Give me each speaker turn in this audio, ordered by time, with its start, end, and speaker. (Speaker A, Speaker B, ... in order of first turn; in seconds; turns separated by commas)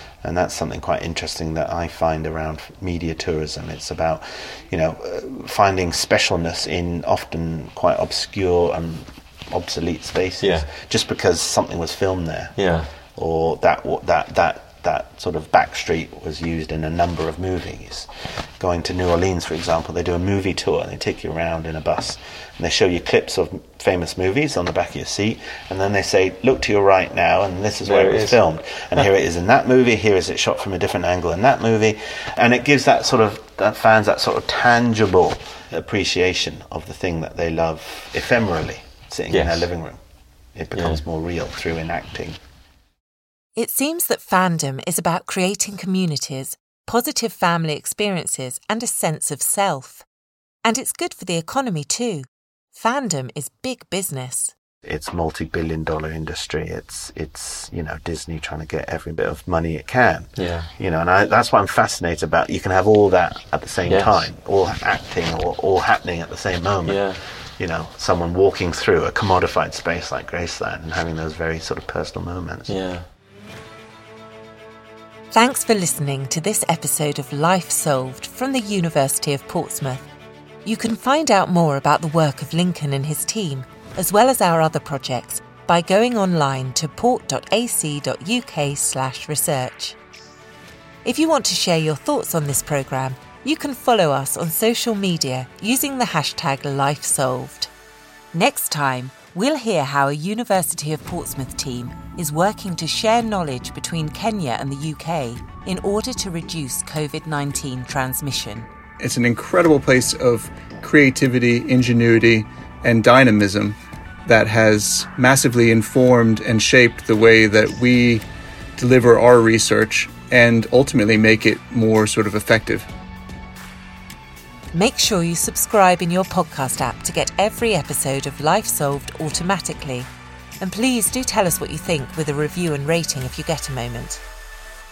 Speaker A: 0.2-12.6, Speaker B: 10.4-10.7, Speaker B: 12.6-12.9, Speaker A: 13.2-18.1, Speaker A: 18.6-40.0, Speaker B: 27.8-28.4, Speaker B: 39.3-39.7, Speaker A: 40.5-42.4, Speaker B: 40.7-41.0, Speaker C: 43.6-50.0, Speaker C: 50.6-54.5, Speaker A: 54.8-72.7, Speaker B: 60.4-60.7, Speaker B: 63.8-64.2, Speaker B: 66.8-67.2, Speaker B: 72.7-73.0, Speaker C: 75.3-80.1, Speaker C: 80.6-90.0, Speaker C: 91.0-97.7, Speaker C: 98.3-108.7, Speaker D: 109.0-118.2, Speaker D: 118.8-122.9, Speaker C: 124.7-130.1, Speaker C: 130.6-134.2